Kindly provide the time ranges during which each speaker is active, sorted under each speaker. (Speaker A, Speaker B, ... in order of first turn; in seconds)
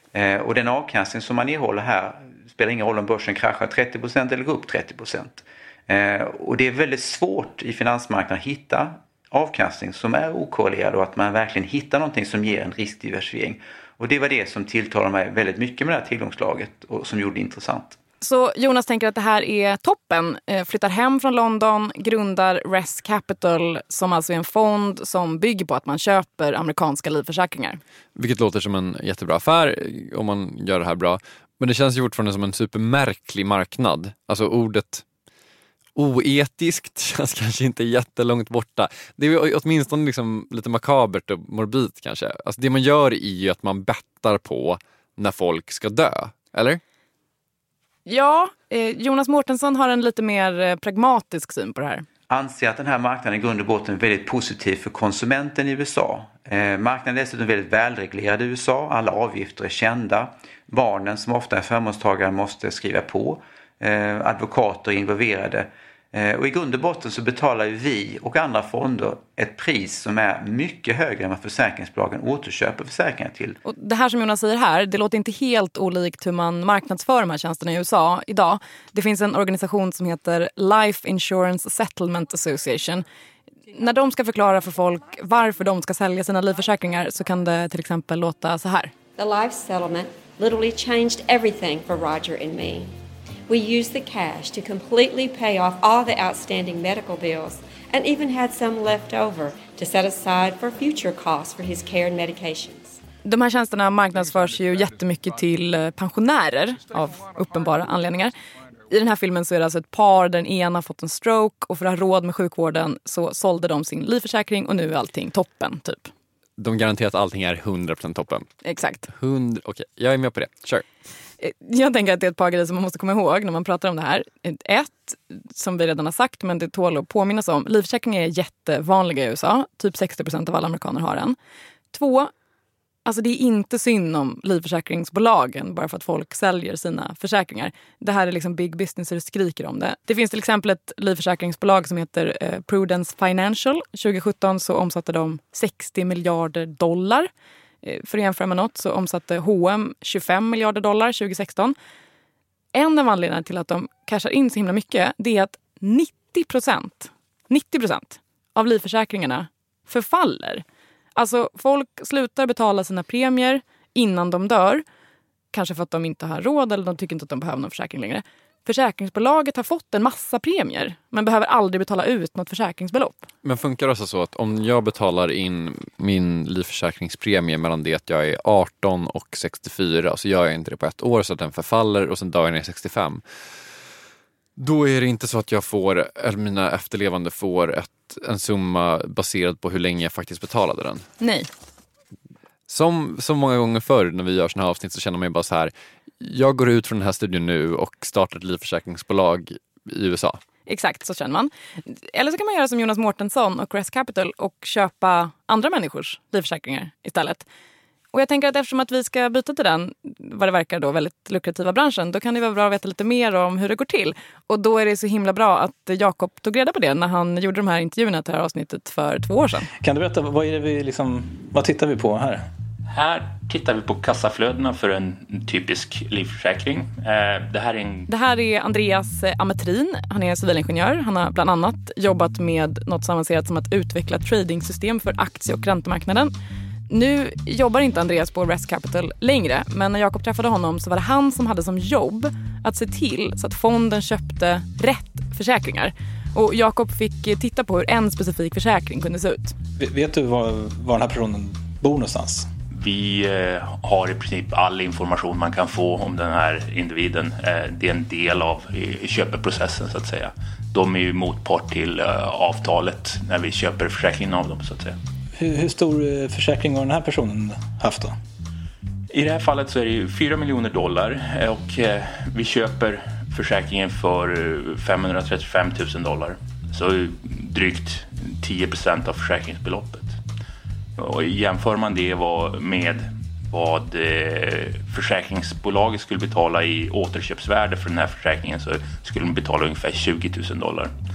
Speaker A: 0.1-17.9, 52.3-73.6
Speaker B: 18.2-27.8, 48.0-52.0, 73.6-83.0, 83.7-88.9, 103.2-108.3, 108.9-116.1, 118.6-119.1, 121.4-131.3, 131.9-132.3, 133.1-147.3, 147.8-151.8, 152.7-160.6, 161.2-164.8, 165.5-173.3, 191.2-191.5, 200.7-207.5, 208.1-219.7, 228.1-236.3, 236.9-249.5
Speaker C: 28.1-35.0, 35.9-46.8, 116.6-118.5, 119.1-120.8, 173.4-183.2, 184.6-191.1, 192.7-200.4
Speaker D: 89.2-92.9, 93.5-102.9
Speaker E: 219.8-222.5, 249.8-252.5, 265.4-268.1
Speaker F: 222.9-228.1, 252.8-265.0, 269.1-280.2, 281.0-290.9